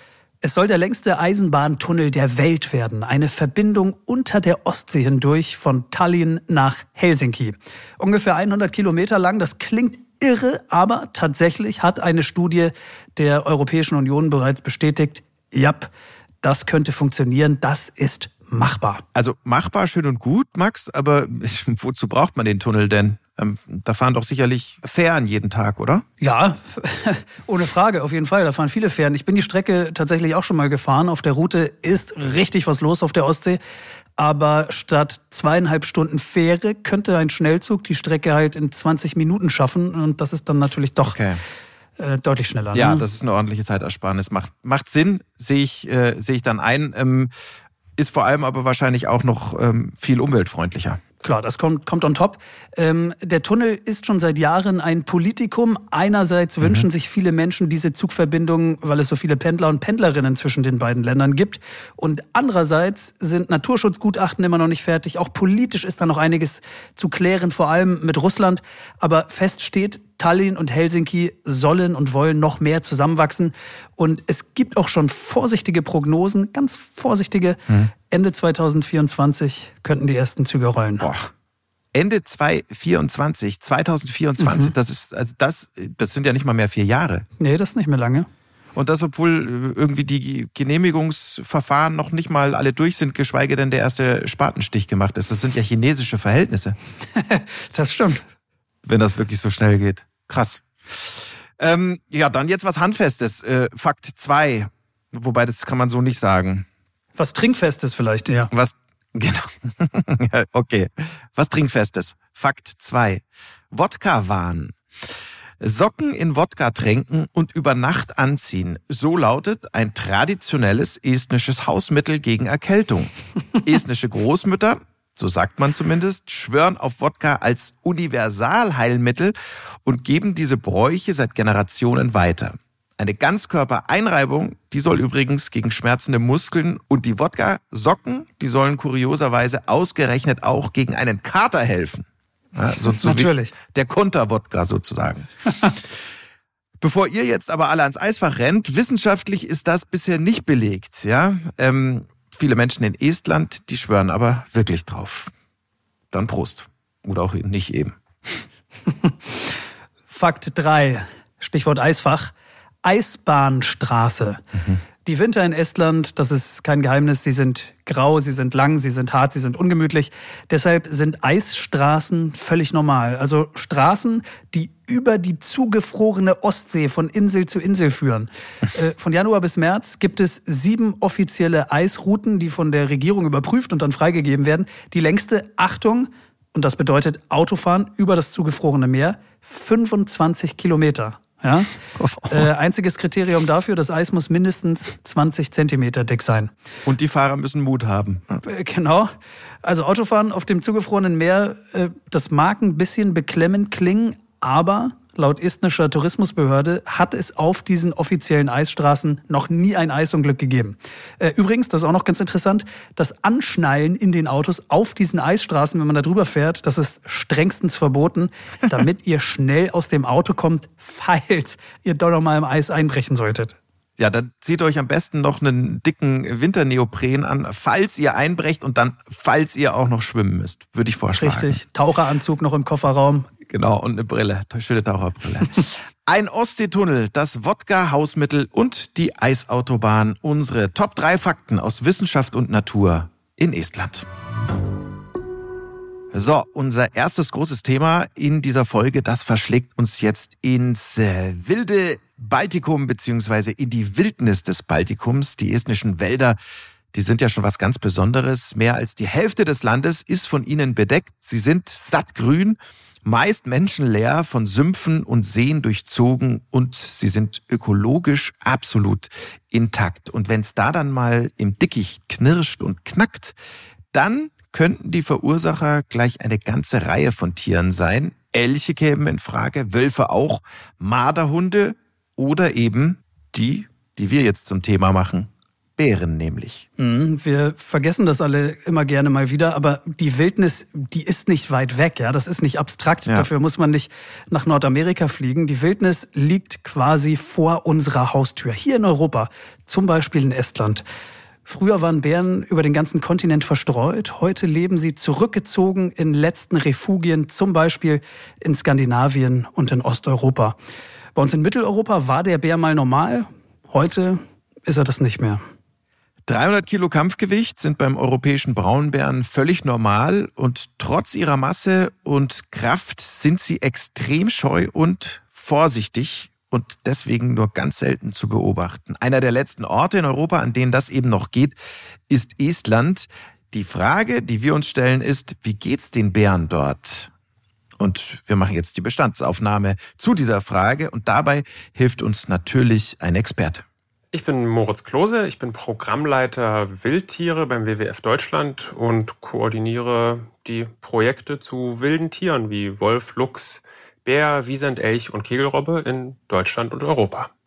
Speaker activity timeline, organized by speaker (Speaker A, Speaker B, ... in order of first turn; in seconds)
Speaker A: 0.4-15.9, 16.4-19.0, 26.2-33.6, 34.2-41.2, 42.0-43.0, 51.2-81.1, 84.4-84.7, 87.4-88.3, 97.2-98.2, 107.2-108.5, 142.8-143.5, 158.9-159.2, 160.1-162.3, 162.8-164.4, 165.1-191.7, 192.3-196.5, 198.4-199.1, 199.6-223.6, 231.2-233.3, 286.8-300.8, 301.5-310.6, 311.1-315.4
Speaker B: 19.1-26.1, 41.1-41.4, 42.7-47.3, 48.0-51.0, 81.0-81.3, 81.9-87.3, 88.8-96.8, 98.8-106.7, 108.5-114.8, 115.6-123.1, 123.6-129.3, 129.8-145.3, 146.8-155.3, 156.1-158.4, 192.0-192.5, 196.9-198.4, 224.0-231.6, 233.5-244.1, 246.1-256.4, 256.9-273.4, 273.9-286.6, 316.3-331.6, 332.1-337.1, 337.8-343.6
Speaker C: 344.1-357.3